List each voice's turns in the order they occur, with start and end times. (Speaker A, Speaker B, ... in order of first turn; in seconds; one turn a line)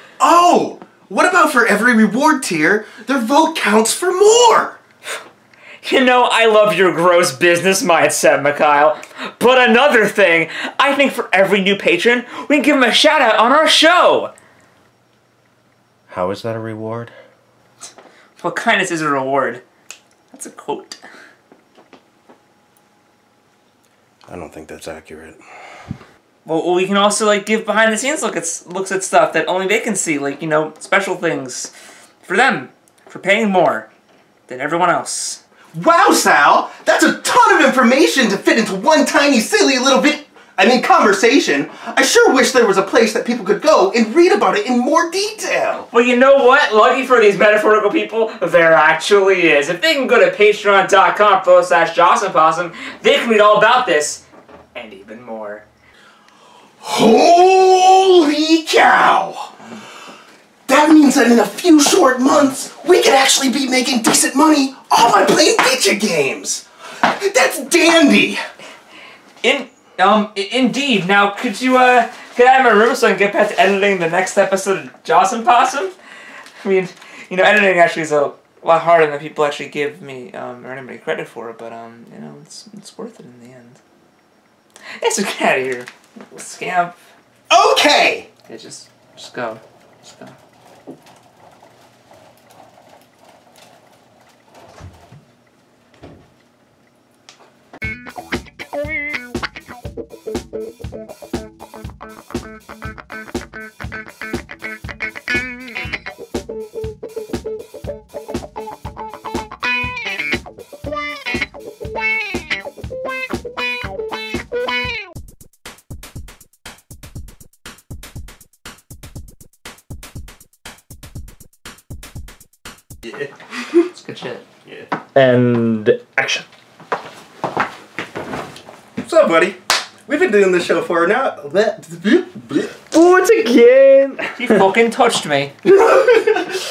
Speaker A: 0.2-4.8
Speaker B: 5.8-14.3
Speaker A: 16.1-17.1
Speaker B: 18.4-19.6
Speaker B: 20.3-21.0
Speaker A: 24.3-25.4
Speaker B: 26.4-31.7
Speaker B: 32.2-33.9
Speaker B: 34.5-35.4
Speaker A: 35.7-45.9
Speaker B: 45.9-54.2
Speaker B: 54.7-55.6
Speaker A: 56.8-59.5
Speaker B: 59.6-59.9
Speaker A: 60.7-68.4
Speaker B: 69.4-75.9
Speaker B: 76.6-83.8
Speaker B: 85.0-87.0
Speaker A: 87.5-88.3
Speaker B: 88.5-90.3
Speaker B: 123.7-124.4
Speaker C: 125.1-126.4
Speaker A: 129.0-132.9
Speaker C: 132.9-134.5
Speaker B: 134.4-135.5
Speaker A: 135.6-136.4